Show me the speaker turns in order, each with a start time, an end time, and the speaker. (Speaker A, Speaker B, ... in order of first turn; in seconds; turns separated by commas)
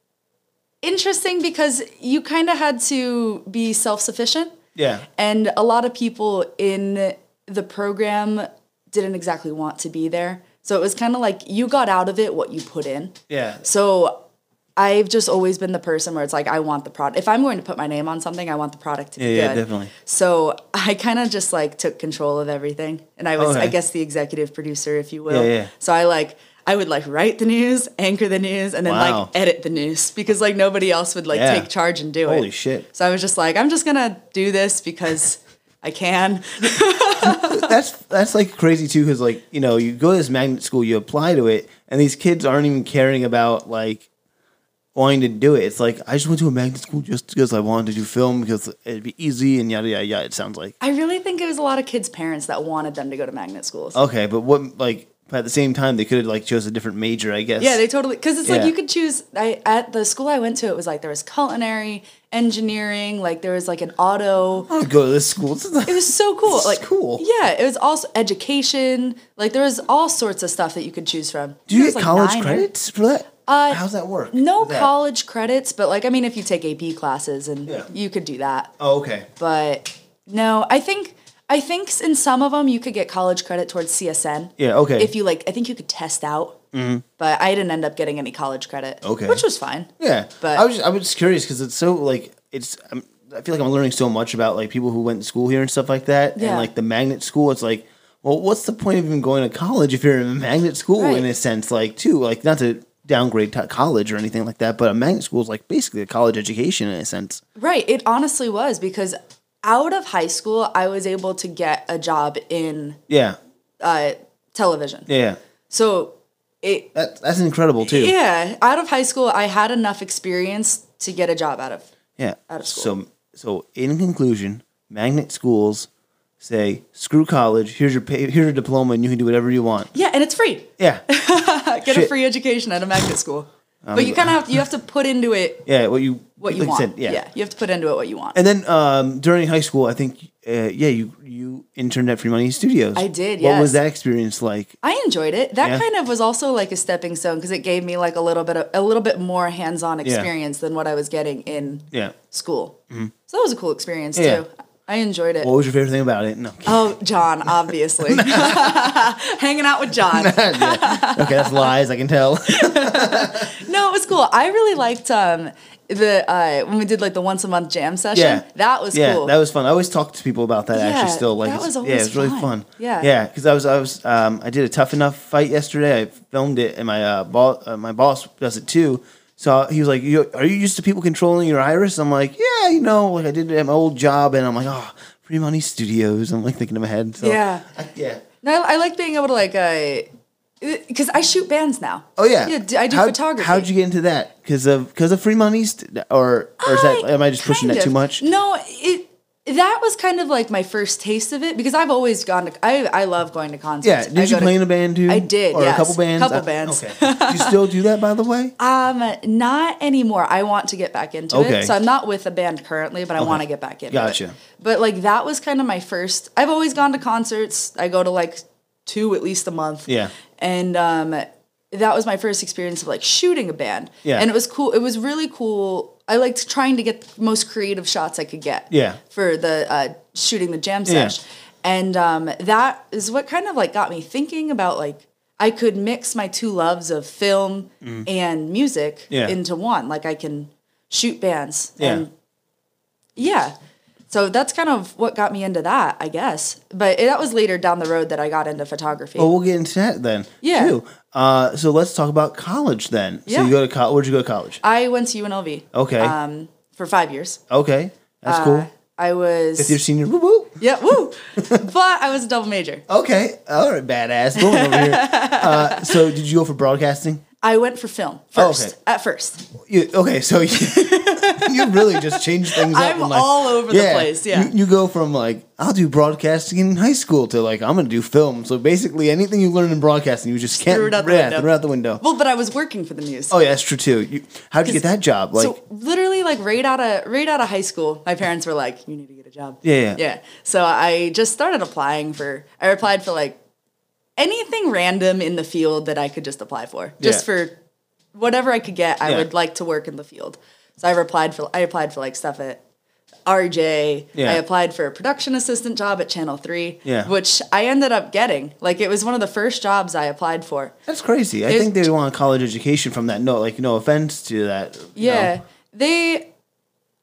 Speaker A: 0.8-4.5, Speaker B: 4.8-5.1, Speaker A: 5.2-14.2, Speaker B: 13.3-13.7, Speaker A: 14.8-37.8, Speaker B: 19.2-19.9, Speaker B: 23.4-23.8, Speaker B: 25.3-25.7, Speaker B: 28.9-29.3, Speaker B: 31.3-31.7, Speaker B: 32.3-32.9, Speaker B: 37.2-44.1, Speaker B: 45.0-50.7, Speaker A: 50.8-54.0, Speaker B: 53.9-57.8, Speaker A: 57.6-64.7, Speaker B: 58.5-58.7, Speaker B: 64.7-67.2, Speaker A: 65.9-72.7, Speaker B: 71.7-74.9, Speaker A: 73.5-78.7, Speaker B: 78.8-79.3, Speaker A: 79.4-86.6, Speaker B: 84.6-85.1, Speaker B: 86.7-87.0, Speaker A: 87.2-89.9, Speaker B: 89.0-89.4, Speaker B: 90.0-107.4, Speaker A: 96.4-96.7, Speaker A: 101.0-101.3, Speaker A: 107.6-113.0, Speaker B: 113.1-113.4, Speaker A: 113.8-115.1, Speaker B: 115.1-115.4, Speaker A: 115.7-116.9, Speaker B: 116.9-118.1, Speaker A: 117.8-121.9, Speaker B: 122.2-125.9, Speaker A: 122.5-122.9, Speaker B: 126.4-129.9, Speaker A: 129.9-135.7, Speaker B: 130.8-131.1, Speaker B: 131.9-132.1, Speaker B: 133.9-134.7, Speaker B: 135.7-137.2, Speaker A: 136.4-138.4, Speaker B: 138.3-144.7, Speaker A: 143.0-143.8, Speaker A: 144.8-155.5, Speaker B: 154.2-154.4, Speaker B: 155.4-156.9, Speaker A: 156.7-161.7, Speaker B: 158.0-159.0, Speaker B: 160.1-163.6, Speaker A: 162.5-169.3, Speaker B: 168.1-188.2, Speaker A: 170.7-173.1, Speaker A: 187.2-187.7, Speaker A: 188.4-190.1, Speaker A: 190.6-193.7, Speaker B: 192.2-198.2, Speaker A: 196.6-207.6, Speaker B: 203.8-208.5, Speaker A: 208.6-242.1, Speaker B: 211.3-211.8, Speaker B: 213.2-214.3, Speaker B: 219.9-220.1, Speaker B: 228.7-229.0, Speaker B: 230.9-231.2, Speaker B: 237.8-238.1, Speaker B: 239.1-239.4, Speaker B: 241.8-242.1, Speaker A: 243.2-243.5, Speaker A: 244.1-249.3, Speaker B: 249.2-254.6, Speaker A: 250.4-250.8, Speaker A: 253.3-253.6, Speaker A: 254.6-257.4, Speaker B: 255.7-256.1, Speaker B: 257.5-258.7, Speaker A: 258.3-259.8, Speaker B: 259.6-260.6, Speaker A: 260.6-262.8, Speaker B: 261.4-261.7, Speaker B: 262.9-267.2, Speaker A: 264.4-266.0, Speaker A: 267.4-269.5, Speaker B: 268.4-268.7, Speaker B: 269.5-282.0, Speaker A: 270.6-274.5, Speaker A: 280.5-283.4, Speaker B: 283.3-285.6, Speaker A: 285.4-293.4, Speaker B: 289.6-290.0, Speaker A: 294.2-297.6, Speaker B: 297.0-297.3, Speaker A: 298.1-302.6, Speaker A: 303.3-310.8, Speaker B: 304.1-304.4, Speaker B: 306.9-307.1, Speaker B: 310.9-315.4, Speaker A: 311.5-311.8, Speaker A: 315.0-316.3